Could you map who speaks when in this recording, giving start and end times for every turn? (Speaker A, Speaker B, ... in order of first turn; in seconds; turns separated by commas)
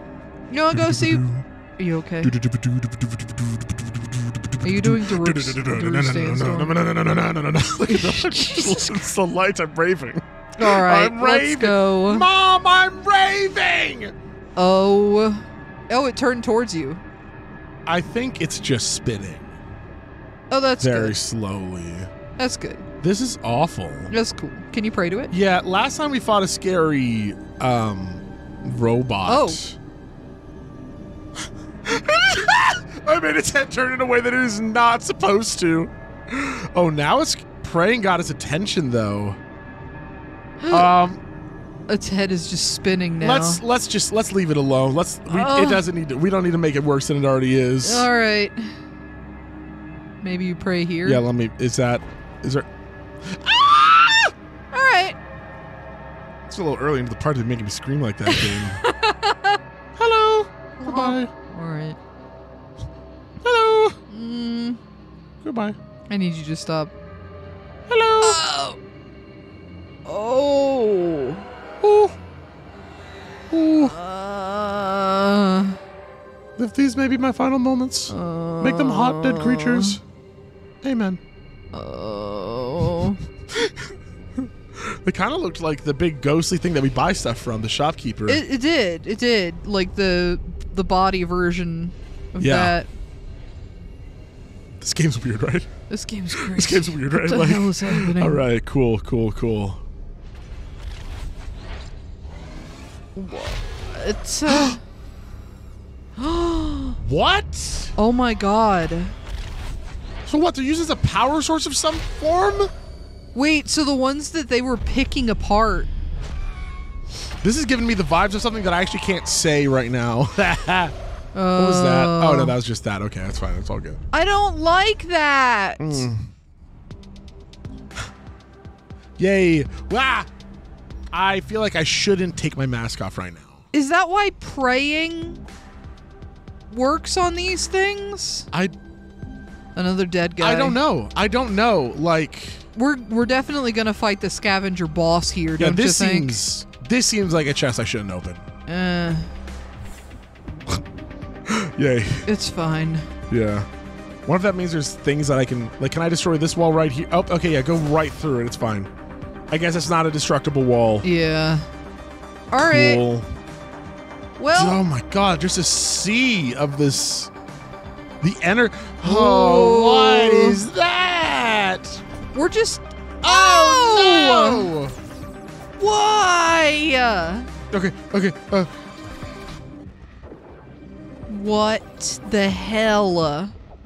Speaker A: 0.5-1.2, Speaker B: 0.7-1.5, Speaker A: 1.8-2.4, Speaker B: 2.2-14.1, Speaker A: 4.6-6.8, Speaker A: 7.9-9.0, Speaker A: 10.6-12.3, Speaker A: 14.6-17.0, Speaker B: 17.9-19.5, Speaker A: 20.5-21.2, Speaker B: 20.8-22.1, Speaker A: 22.4-22.9, Speaker B: 23.0-24.1, Speaker A: 24.1-25.3, Speaker B: 25.3-29.8, Speaker A: 29.3-29.6, Speaker B: 31.8-39.4, Speaker A: 40.6-40.9, Speaker B: 40.7-41.2, Speaker A: 41.9-43.6, Speaker B: 43.2-48.1, Speaker A: 45.3-45.8, Speaker A: 47.8-48.8, Speaker A: 50.2-51.2, Speaker B: 51.0-52.7, Speaker B: 53.2-54.3, Speaker A: 54.7-55.2, Speaker B: 56.5-58.8, Speaker A: 58.3-59.6, Speaker B: 60.0-61.3, Speaker A: 60.8-62.0, Speaker B: 63.4-64.0, Speaker A: 64.1-64.8, Speaker B: 65.4-65.8, Speaker A: 66.1-66.9, Speaker B: 67.9-68.4, Speaker A: 68.2-68.8, Speaker A: 70.0-71.5, Speaker B: 71.8-72.2, Speaker B: 73.5-73.9, Speaker A: 73.8-75.8, Speaker B: 76.6-80.0, Speaker A: 78.1-80.0, Speaker B: 80.8-81.2, Speaker A: 81.7-83.2, Speaker B: 83.5-88.4, Speaker A: 88.3-92.9, Speaker B: 92.4-92.8, Speaker B: 94.8-95.7, Speaker A: 95.9-98.4, Speaker B: 96.3-99.8, Speaker A: 103.2-104.8, Speaker B: 104.5-104.8, Speaker A: 106.2-107.0, Speaker B: 107.0-108.0, Speaker A: 108.0-109.1, Speaker B: 110.3-112.7, Speaker A: 113.3-115.9, Speaker B: 117.4-121.0, Speaker A: 121.3-122.5, Speaker B: 121.6-124.0, Speaker A: 124.1-126.1, Speaker B: 125.8-126.3, Speaker B: 129.2-130.3, Speaker B: 131.1-133.6, Speaker A: 133.7-135.4, Speaker A: 136.7-138.5, Speaker A: 139.8-140.8, Speaker B: 140.4-142.6, Speaker A: 142.8-146.4, Speaker B: 145.6-148.5, Speaker A: 148.7-149.3, Speaker B: 151.4-152.3, Speaker A: 152.2-153.1, Speaker B: 153.3-153.7, Speaker B: 154.3-158.9, Speaker B: 159.5-161.1, Speaker A: 161.0-161.7, Speaker A: 162.5-163.0, Speaker B: 162.6-163.3, Speaker A: 164.4-164.8, Speaker B: 164.5-167.3, Speaker B: 168.2-172.0, Speaker A: 169.0-170.6, Speaker A: 172.3-174.8, Speaker B: 173.2-174.9, Speaker A: 175.8-177.5, Speaker B: 177.7-178.7, Speaker A: 181.3-183.5